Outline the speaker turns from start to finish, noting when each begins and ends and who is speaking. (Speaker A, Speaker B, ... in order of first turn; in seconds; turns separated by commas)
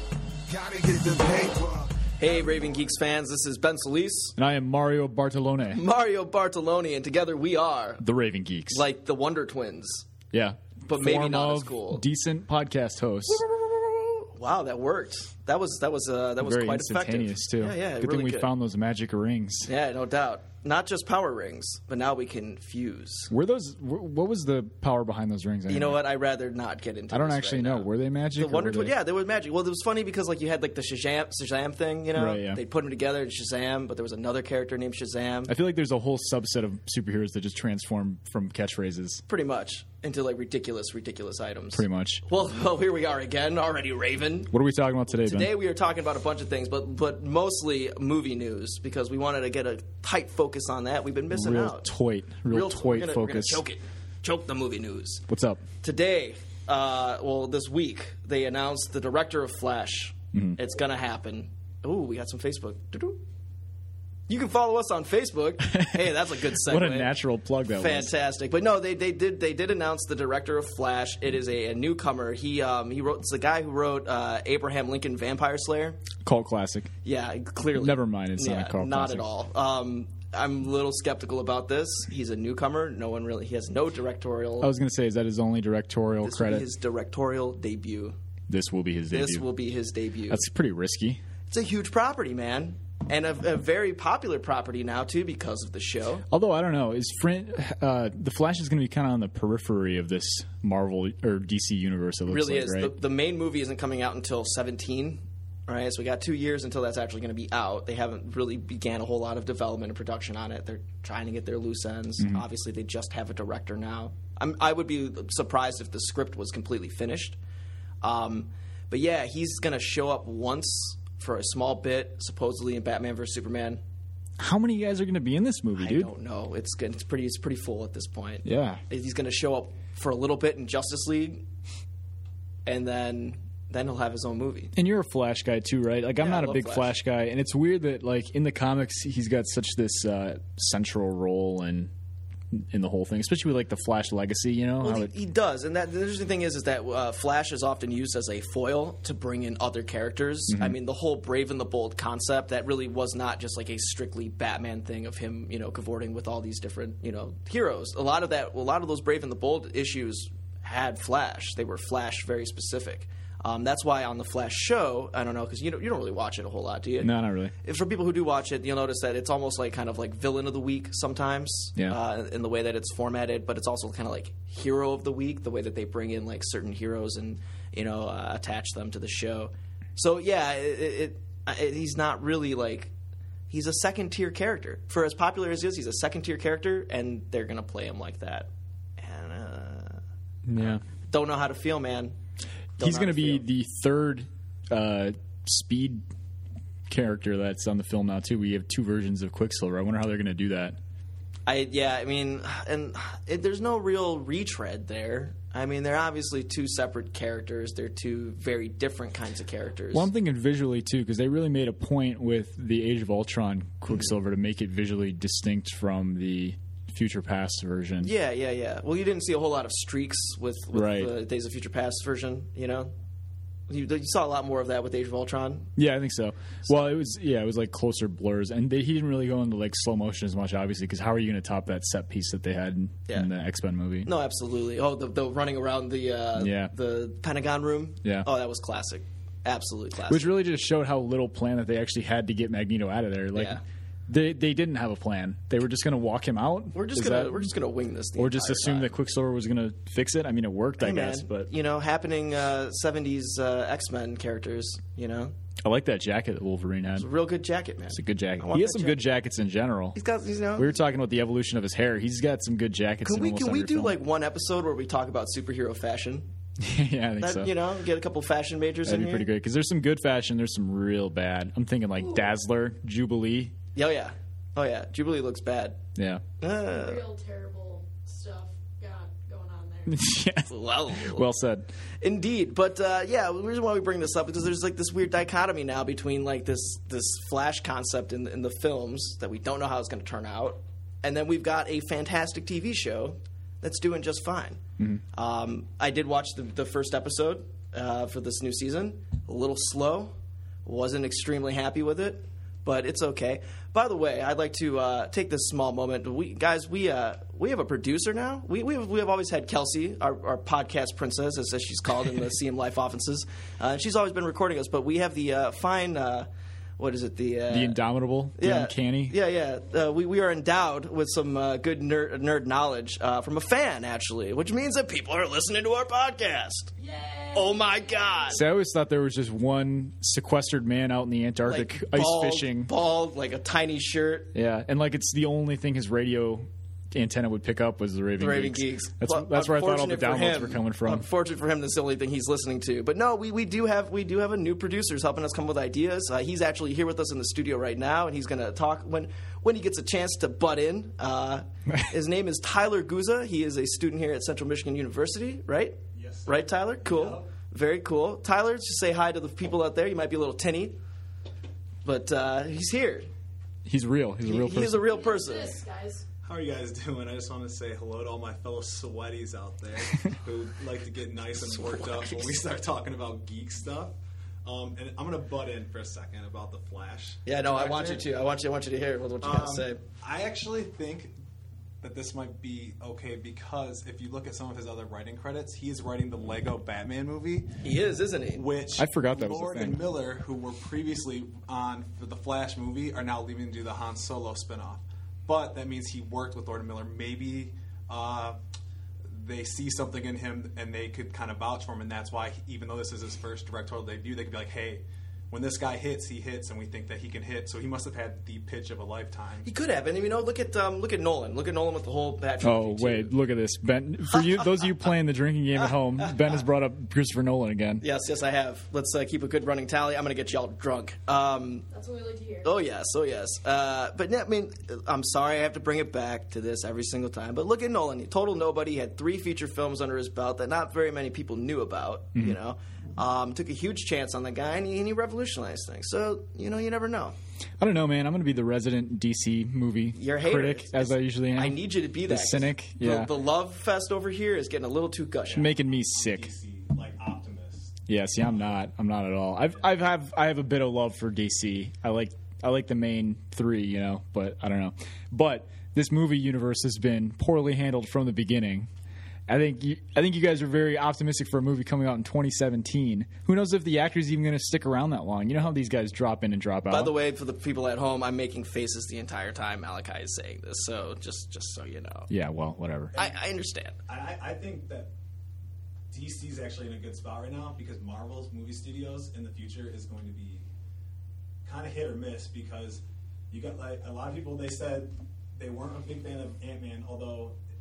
Speaker A: 0.5-2.7, Speaker B: 2.2-4.3, Speaker C: 4.4-5.8, Speaker B: 5.7-8.0, Speaker C: 8.0-8.8, Speaker B: 8.7-10.1, Speaker C: 10.3-13.4, Speaker B: 10.8-12.0, Speaker B: 13.3-18.5, Speaker C: 16.4-19.7, Speaker B: 19.6-23.3, Speaker C: 23.3-26.0, Speaker B: 25.7-35.5, Speaker C: 27.1-28.9, Speaker C: 32.1-32.6, Speaker C: 35.5-39.2, Speaker B: 39.3-44.5, Speaker C: 41.7-42.2, Speaker C: 44.5-45.5, Speaker B: 45.1-51.9, Speaker C: 51.3-53.6, Speaker B: 52.5-55.2, Speaker C: 55.3-55.6, Speaker B: 55.8-63.2, Speaker B: 64.3-67.1, Speaker C: 65.7-68.1, Speaker B: 67.8-76.0, Speaker C: 76.2-76.9, Speaker B: 77.0-84.7, Speaker C: 77.8-79.2, Speaker C: 84.6-86.7, Speaker B: 86.2-88.2, Speaker C: 88.5-89.5, Speaker B: 89.1-90.4, Speaker C: 90.3-91.2, Speaker B: 91.5-96.2, Speaker C: 96.3-102.9, Speaker B: 102.3-117.4, Speaker B: 118.0-123.8, Speaker C: 124.4-126.1, Speaker B: 125.8-131.4, Speaker C: 128.4-128.8, Speaker B: 132.7-134.7, Speaker C: 134.7-141.9, Speaker B: 136.2-136.9, Speaker C: 142.5-145.1, Speaker B: 144.8-182.9, Speaker C: 150.5-150.8, Speaker C: 167.0-167.5, Speaker B: 183.5-190.0, Speaker C: 190.4-190.8, Speaker B: 190.6-192.2, Speaker B: 192.8-193.4, Speaker C: 192.8-196.0, Speaker C: 196.9-200.8, Speaker B: 201.5-210.1, Speaker C: 209.9-218.1, Speaker B: 218.0-222.9, Speaker C: 220.7-221.1, Speaker B: 223.7-225.7, Speaker C: 225.8-234.1, Speaker B: 226.6-226.9, Speaker B: 234.0-240.3, Speaker C: 236.4-236.7, Speaker C: 240.1-247.5, Speaker B: 243.3-243.6, Speaker B: 246.7-248.9, Speaker C: 248.2-251.5, Speaker B: 250.8-255.3, Speaker C: 255.6-257.1, Speaker B: 256.9-259.0, Speaker C: 257.9-259.9, Speaker B: 259.9-260.7, Speaker C: 260.6-263.9, Speaker B: 263.0-266.3, Speaker C: 266.6-267.5, Speaker B: 267.2-269.3, Speaker C: 268.8-273.5, Speaker B: 273.7-275.8, Speaker C: 275.9-276.2, Speaker B: 276.4-277.0, Speaker D: 276.7-280.0, Speaker C: 279.9-281.7, Speaker B: 280.5-281.3, Speaker B: 282.0-294.6, Speaker B: 295.1-300.1, Speaker B: 300.6-317.8, Speaker C: 317.5-319.1, Speaker B: 318.4-326.7, Speaker D: 326.8-328.3, Speaker B: 327.3-328.4, Speaker C: 328.3-332.7, Speaker B: 331.4-334.3, Speaker C: 334.3-341.0, Speaker B: 338.2-360.8, Speaker E: 355.9-357.3, Speaker B: 361.8-363.1, Speaker C: 363.6-364.8, Speaker B: 364.2-365.6, Speaker D: 364.8-366.0, Speaker E: 366.2-378.1, Speaker B: 371.4-372.3, Speaker B: 377.2-379.8, Speaker E: 379.2-381.1, Speaker E: 381.8-387.6, Speaker B: 387.6-388.4, Speaker E: 388.3-398.4, Speaker C: 388.8-389.8, Speaker E: 399.1-409.5, Speaker B: 409.4-413.1, Speaker C: 412.4-417.8, Speaker B: 414.1-414.9, Speaker B: 415.5-416.4, Speaker B: 417.8-421.6, Speaker D: 421.7-422.5, Speaker B: 422.4-437.1, Speaker C: 437.6-443.1, Speaker B: 439.9-445.5, Speaker E: 445.3-447.8, Speaker C: 445.3-446.3, Speaker C: 447.9-458.7, Speaker C: 459.3-466.9, Speaker B: 466.7-472.1, Speaker C: 472.1-472.9, Speaker B: 472.9-473.8, Speaker E: 473.9-474.9, Speaker E: 475.9-480.4, Speaker E: 481.4-487.4